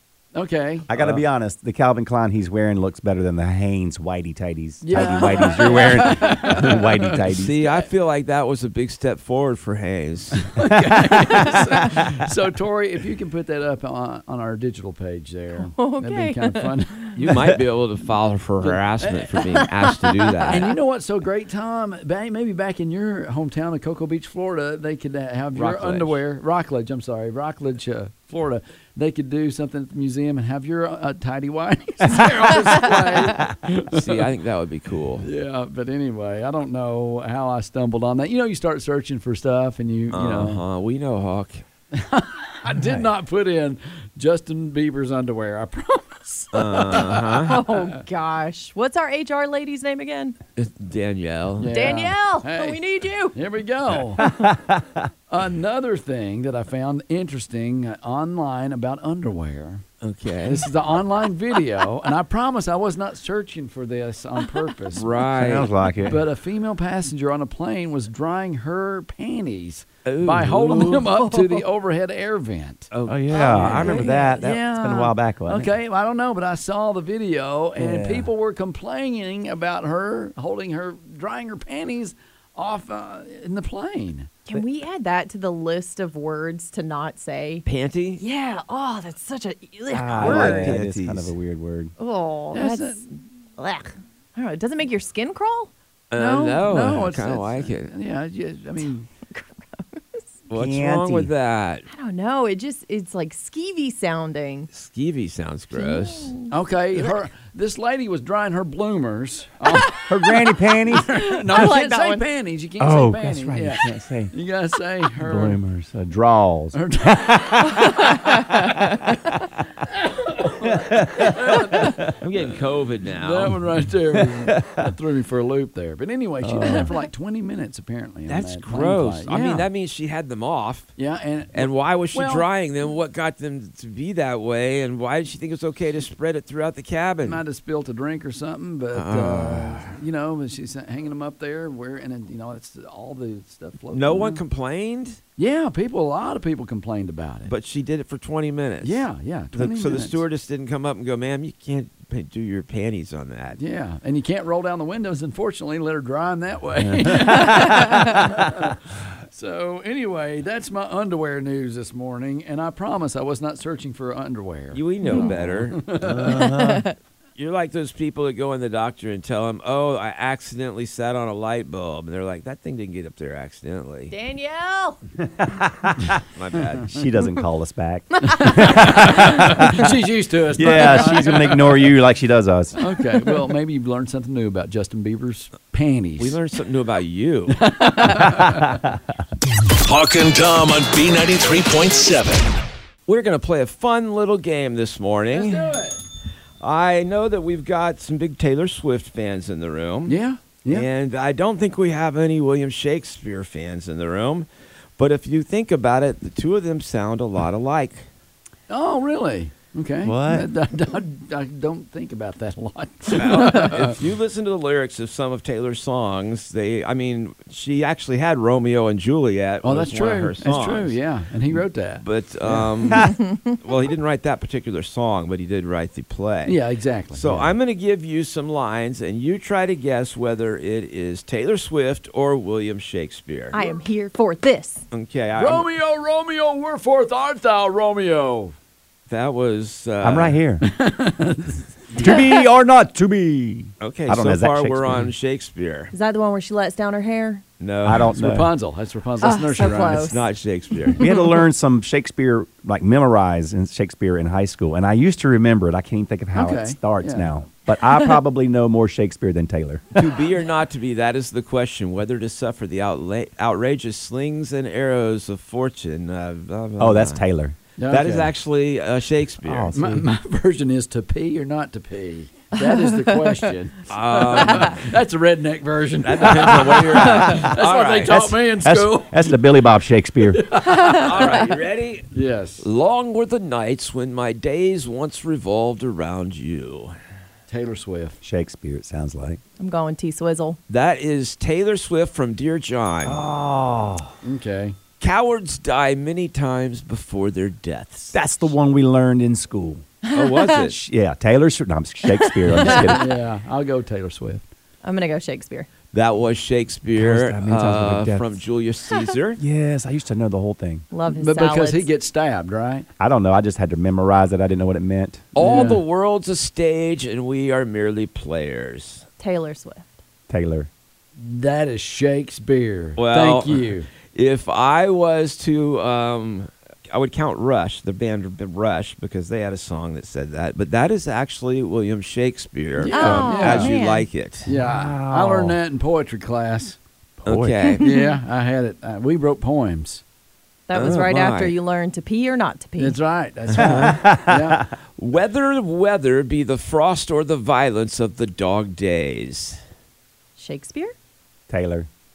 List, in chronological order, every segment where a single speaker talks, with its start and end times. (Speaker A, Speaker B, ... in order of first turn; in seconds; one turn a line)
Speaker A: 0.3-1.2
Speaker B: 0.9-7.6
Speaker A: 4.8-7.2
Speaker C: 4.9-6.2
Speaker D: 7.3-10.5
Speaker A: 10.5-17.6
Speaker B: 10.8-11.4
Speaker C: 15.6-16.7
Speaker D: 17.2-20.7
Speaker A: 18.6-19.6
Speaker A: 20.4-34.3
Speaker D: 25.5-26.2
Speaker D: 33.9-35.3
Speaker A: 35.2-40.6
Speaker D: 40.1-41.6
Speaker A: 41.9-47.9
Speaker D: 46.5-47.6
Speaker C: 47.4-50.4
Speaker D: 50.6-51.9
Speaker A: 51.6-52.8
Speaker C: 51.7-53.4
Speaker A: 53.3-54.3
Speaker B: 54.2-55.0
Speaker A: 55.3-59.8
Speaker D: 60.0-60.7
Speaker A: 60.5-65.1
Speaker D: 64.9-65.7
Speaker B: 65.4-66.2
Speaker A: 66.0-84.3
Speaker D: 70.0-71.1
Speaker C: 71.2-71.6
Speaker D: 72.9-74.1
Speaker B: 73.0-75.7
Speaker C: 73.8-74.4
Speaker B: 77.8-78.3
Speaker C: 84.5-87.6
Speaker D: 87.6-88.2
Speaker C: 88.2-90.7
Speaker B: 89.9-91.9
Speaker D: 90.2-91.3
Speaker C: 92.0-93.0
Speaker A: 92.5-93.0
Speaker C: 93.6-95.7
Speaker D: 96.1-97.9
Speaker A: 96.2-99.1
Speaker C: 99.3-100.2
Speaker D: 100.5-101.9
Speaker B: 100.5-101.3
Speaker C: 101.9-104.7
Speaker D: 104.7-106.3
Speaker C: 105.7-106.5
Speaker A: 106.5-110.3
Speaker B: 110.1-111.7
Speaker A: 110.8-115.6
Speaker C: 111.1-112.2
Speaker B: 112.8-114.3
Speaker B: 115.2-117.9
Speaker A: 116.7-118.2
Speaker C: 118.0-119.1
Speaker A: 119.9-122.1
Speaker B: 120.6-122.1
Speaker D: 122.2-123.6
Speaker A: 123.1-129.7
Speaker B: 124.2-124.8
Speaker B: 126.4-126.9
Speaker D: 128.3-130.9
Speaker A: 131.0-132.5
Speaker D: 131.5-137.4
Speaker A: 137.2-144.4
Speaker D: 138.9-139.9
Speaker D: 143.9-145.2
Speaker A: 145.4-147.5
Speaker D: 147.5-153.6
Speaker A: 148.8-150.2
Speaker A: 153.6-166.4
Speaker B: 156.8-158.7
Speaker D: 164.7-165.8
Speaker C: 165.0-165.3
Speaker B: 166.0-166.9
Speaker C: 166.3-166.9
Speaker D: 167.4-174.1
Speaker C: 174.1-175.0
Speaker B: 175.2-176.2
Speaker D: 176.3-176.9
Speaker B: 176.9-179.9
Speaker A: 178.3-181.9
Speaker B: 180.5-182.8
Speaker A: 182.8-186.4
Speaker D: 186.2-187.6
Speaker A: 187.5-188.8
Speaker B: 188.3-188.8
Speaker E: 189.8-192.6
Speaker D: 193.1-195.8
Speaker A: 195.3-196.0
Speaker D: 196.6-204.4
Speaker A: 200.1-200.9
Speaker D: 205.0-208.1
Speaker A: 208.7-214.0
Speaker B: 210.0-210.5
Speaker D: 213.1-221.0
Speaker A: 219.6-222.9
Speaker D: 221.5-226.6
Speaker C: 223.2-223.5
Speaker A: 226.4-227.5
Speaker D: 227.1-233.6
Speaker C: 233.5-234.8
Speaker D: 234.9-235.7
Speaker A: 235.4-238.5
Speaker D: 239.1-240.4
Speaker B: 240.0-240.6
Speaker A: 240.6-242.2
Speaker B: 241.9-245.1
Speaker D: 243.8-245.9
Speaker C: 245.9-247.4
Speaker D: 247.6-248.3
Speaker B: 247.8-248.5
Speaker A: 248.1-250.1
Speaker C: 249.2-250.2
Speaker D: 249.8-251.1
Speaker B: 251.0-260.2
Speaker A: 256.3-257.3
Speaker D: 259.9-267.2
Speaker B: 266.8-267.6
Speaker A: 267.8-268.3
Speaker D: 267.9-269.7
Speaker B: 269.4-270.1
Speaker A: 269.7-279.4
Speaker C: 272.6-273.4
Speaker D: 273.9-274.9
Speaker D: 276.0-278.3
Speaker B: 276.2-277.4
Speaker B: 278.1-280.5
Speaker A: 280.3-281.5
Speaker C: 280.7-281.2
Speaker D: 280.9-286.9
Speaker A: 282.1-282.6
Speaker A: 287.5-288.2
Speaker B: 288.2-289.4
Speaker C: 289.6-290.6
Speaker D: 290.7-293.2
Speaker B: 293.0-294.1
Speaker A: 294.2-294.8
Speaker D: 295.0-298.1
Speaker B: 298.1-299.8
Speaker C: 300.1-300.5
Speaker D: 300.1-300.8
Speaker B: 300.6-303.1
Speaker C: 302.2-302.6
Speaker A: 302.6-304.4
Speaker C: 304.8-305.7
Speaker D: 305.9-309.4
Speaker B: 306.9-308.3
Speaker B: 309.4-310.9
Speaker C: 310.9-311.9
Speaker A: 311.1-312.9
Speaker B: 313.0-315.3
Speaker D: 315.3-319.1
Speaker A: 315.4-315.8
Speaker C: 319.2-320.0
Speaker B: 320.3-320.7
Speaker A: 321.1-323.9
Speaker D: 323.0-334.5
Speaker A: 332.8-333.7
Speaker C: 332.9-334.1
Speaker A: 334.4-336.8
Speaker B: 334.5-335.6
Speaker B: 337.2-337.8
Speaker D: 337.2-337.9
Speaker C: 337.8-338.1
Speaker A: 337.8-340.0
Speaker C: 340.7-343.0
Speaker D: 340.7-341.5
Speaker A: 342.8-344.7
Speaker D: 343.5-343.9
Speaker B: 343.6-344.6
Speaker D: 345.0-349.6
Speaker C: 350.4-350.9
Speaker B: 351.5-351.9